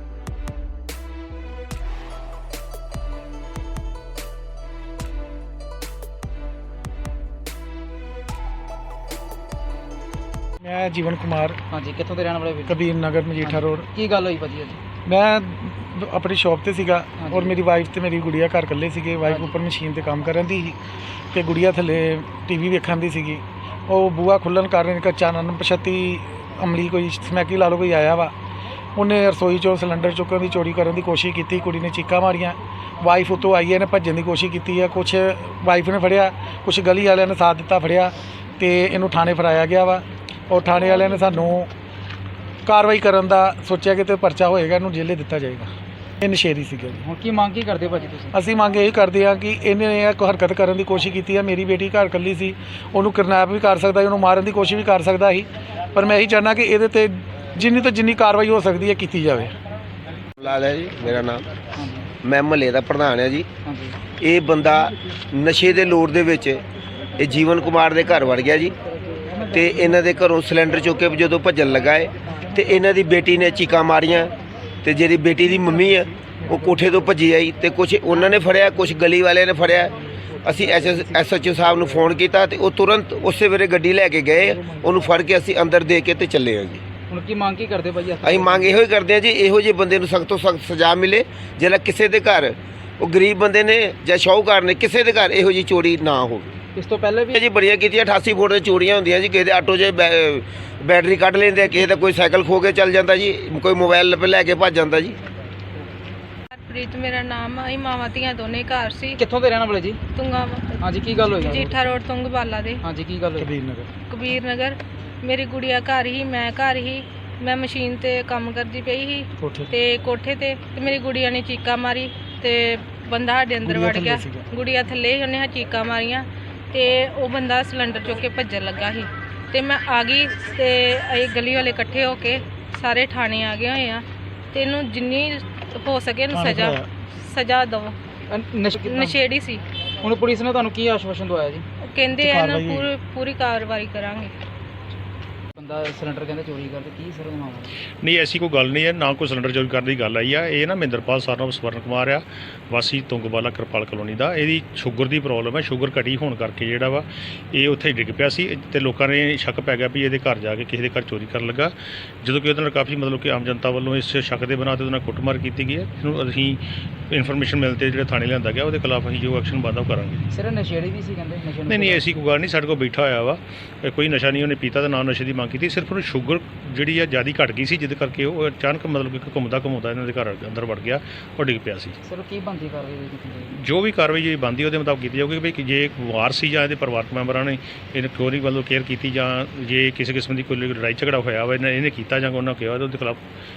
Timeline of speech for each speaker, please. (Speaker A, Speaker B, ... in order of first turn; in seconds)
Speaker A: 10.6-11.6, 12.7-13.8, 15.1-20.8, 21.3-28.3, 28.9-41.7, 42.6-45.7, 46.2-47.0, 48.3-59.5, 113.4-113.9, 119.4-119.7, 123.7-124.5, 136.3-136.9, 142.2-142.9
Speaker B: 11.7-12.8, 13.4-14.8, 17.2-17.5, 47.0-48.3, 61.7-62.1, 63.6-64.0, 87.1-88.7, 96.8-97.4, 109.2-110.0, 110.8-112.0, 112.8-113.5, 138.3-139.2, 140.0-141.6, 145.6-147.7, 170.3-172.0, 182.0-183.6
Speaker C: 60.4-61.5, 62.2-63.5, 64.1-66.6, 67.2-68.7, 69.5-74.3, 74.8-86.8, 88.2-96.6, 97.3-105.2
Speaker D: 106.5-109.2, 110.2-110.8, 111.5-112.8, 114.1-137.9, 138.8-139.6, 141.8-144.3
Speaker E: 148.0-170.2, 171.7-182.0, 183.5-193.2